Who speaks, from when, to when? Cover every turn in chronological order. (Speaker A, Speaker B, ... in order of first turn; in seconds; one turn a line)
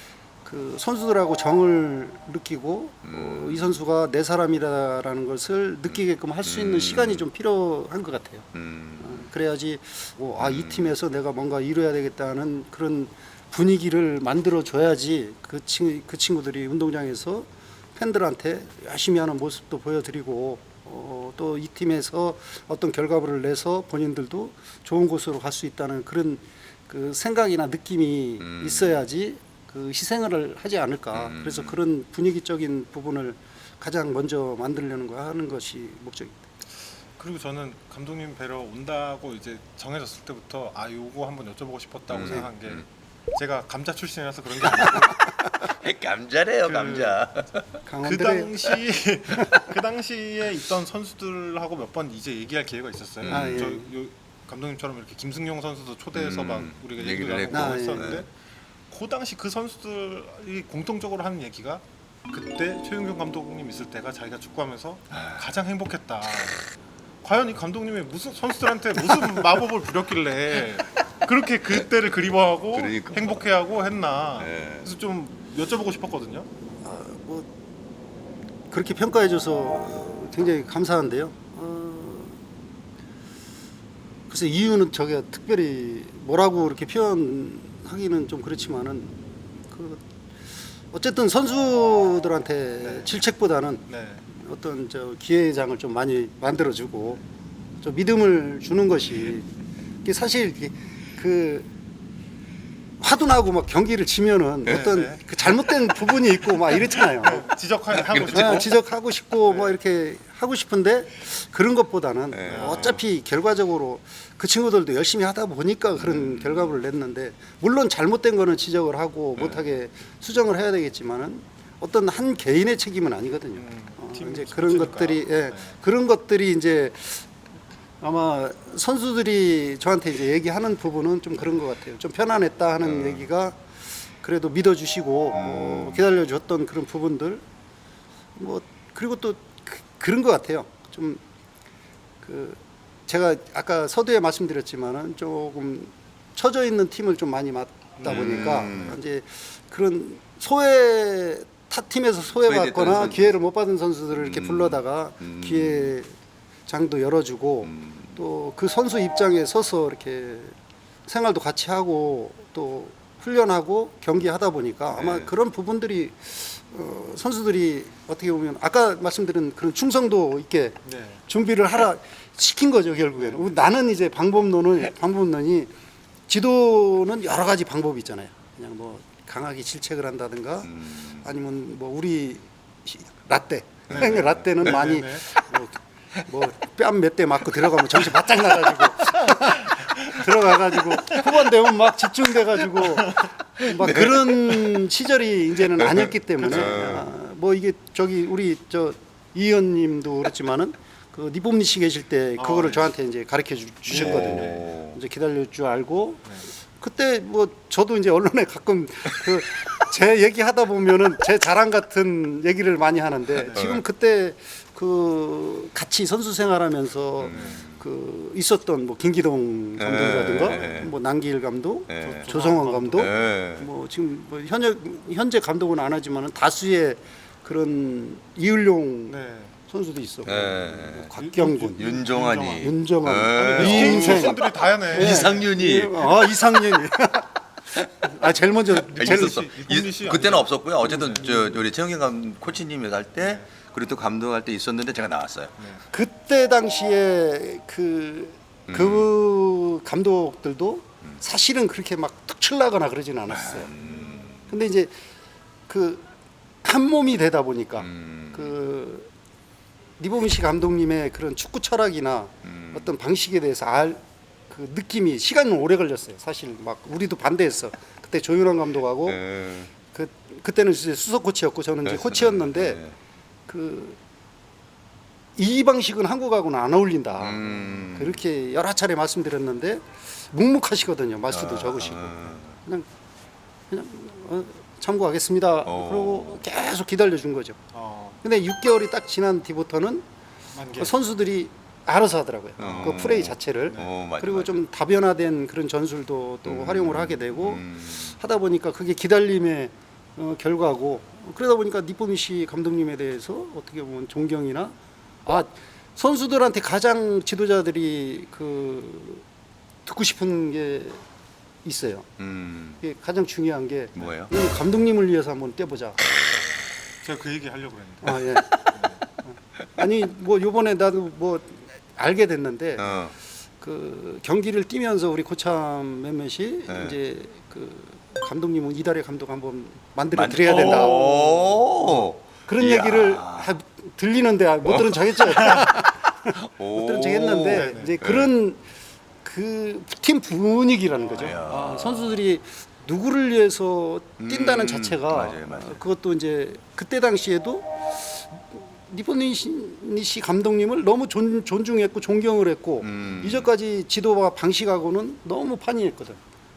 Speaker A: 0.4-8.5
Speaker B: 3.0-3.8
Speaker B: 6.4-7.2
Speaker B: 8.5-9.3
Speaker A: 9.0-36.4
Speaker B: 10.4-10.9
Speaker B: 28.4-29.0
Speaker B: 31.1-31.8
Speaker C: 37.2-45.4
Speaker B: 42.1-42.8
Speaker B: 45.6-47.8
Speaker C: 46.6-47.2
Speaker A: 47.9-48.5
Speaker C: 48.0-58.3
Speaker B: 53.2-53.7
Speaker A: 53.3-53.9
Speaker B: 56.1-58.2
Speaker A: 57.5-58.2
Speaker C: 58.9-66.6
Speaker B: 65.1-65.4
Speaker C: 67.2-76.5
Speaker B: 72.7-73.4
Speaker B: 74.4-74.9
Speaker A: 76.8-77.5
Speaker A: 78.7-82.4
Speaker A: 84.3-89.1
Speaker A: 89.7-90.0
Speaker A: 90.9-97.2
Speaker C: 92.8-93.1
Speaker C: 93.9-94.2
Speaker A: 97.8-99.5
Speaker A: 100.0-101.7
Speaker A: 103.0-127.3
Speaker C: 104.7-105.4
Speaker C: 107.2-108.7
Speaker B: 108.0-108.6
Speaker B: 112.3-113.0
Speaker C: 112.5-113.0
Speaker B: 116.0-116.7
Speaker C: 123.5-125.7
Speaker A: 128.0-137.4
Speaker B: 132.8-133.2
Speaker B: 135.3-136.0
Speaker A: 138.3-141.2
Speaker A: 142.2-156.1
Speaker C: 148.0-149.0
Speaker B: 148.0-149.0
Speaker B: 152.5-153.3
Speaker B: 154.1-155.9
Speaker A: 156.7-160.5
Speaker B: 157.6-158.2
Speaker A: 161.1-175.7
Speaker B: 164.9-165.3
Speaker C: 170.8-171.2
Speaker C: 173.2-173.6
Speaker A: 176.3-229.2
Speaker B: 180.7-181.2
Speaker B: 183.9-184.4
Speaker C: 183.9-185.2
Speaker B: 193.6-194.8
Speaker B: 195.8-197.1
Speaker C: 196.4-196.9
Speaker C: 202.4-202.9
Speaker C: 203.9-204.6
Speaker B: 203.9-205.0
Speaker C: 213.4-213.7
Speaker B: 213.5-213.8
Speaker B: 217.2-217.8
Speaker C: 217.3-217.6
Speaker B: 219.8-220.9
Speaker C: 220.5-220.8
Speaker B: 221.9-222.3
Speaker C: 222.0-223.1
Speaker B: 223.0-223.7
Speaker C: 229.1-229.6
Speaker A: 229.7-232.0
Speaker B: 230.2-231.1
Speaker C: 231.2-235.4
Speaker B: 231.7-236.1
Speaker A: 232.6-239.4
Speaker C: 238.9-241.3
Speaker B: 238.9-245.5
Speaker A: 240.9-241.3
Speaker C: 245.6-245.8
Speaker A: 245.9-253.7
Speaker B: 248.7-249.1
Speaker B: 253.3-254.5
Speaker C: 253.8-254.2
Speaker A: 254.5-254.9
Speaker A: 255.7-256.0
Speaker A: 256.6-259.1
Speaker B: 257.8-258.5
Speaker A: 260.0-269.2
Speaker B: 262.4-262.9
Speaker B: 269.1-269.7
Speaker A: 269.8-272.8
Speaker B: 271.9-272.9
Speaker A: 273.5-274.0
Speaker A: 275.4-282.9
Speaker B: 277.2-278.2
Speaker B: 281.3-282.5
Speaker A: 283.7-287.6
Speaker B: 285.6-286.4
Speaker C: 287.7-288.2
Speaker A: 288.2-290.0
Speaker C: 290.5-290.9
Speaker A: 290.8-304.7
Speaker B: 292.6-294.6
Speaker B: 296.4-298.1
Speaker A: 305.2-309.2
Speaker A: 309.8-311.0
Speaker A: 311.6-312.1
Speaker B: 312.2-312.8
Speaker A: 312.8-316.0
Speaker B: 313.9-314.3
Speaker C: 317.0-318.2
Speaker A: 318.0-318.6
Speaker C: 318.7-319.0
Speaker A: 319.2-322.9
Speaker B: 322.8-323.1
Speaker A: 323.6-331.6
Speaker B: 326.7-326.9
Speaker B: 330.1-333.5
Speaker C: 330.5-330.9
Speaker A: 332.5-338.6
Speaker B: 334.6-335.7
Speaker B: 336.3-338.3
Speaker C: 337.5-337.9
Speaker A: 339.2-356.2
Speaker C: 341.0-341.4
Speaker B: 341.2-342.2
Speaker B: 344.2-345.8
Speaker B: 352.8-353.5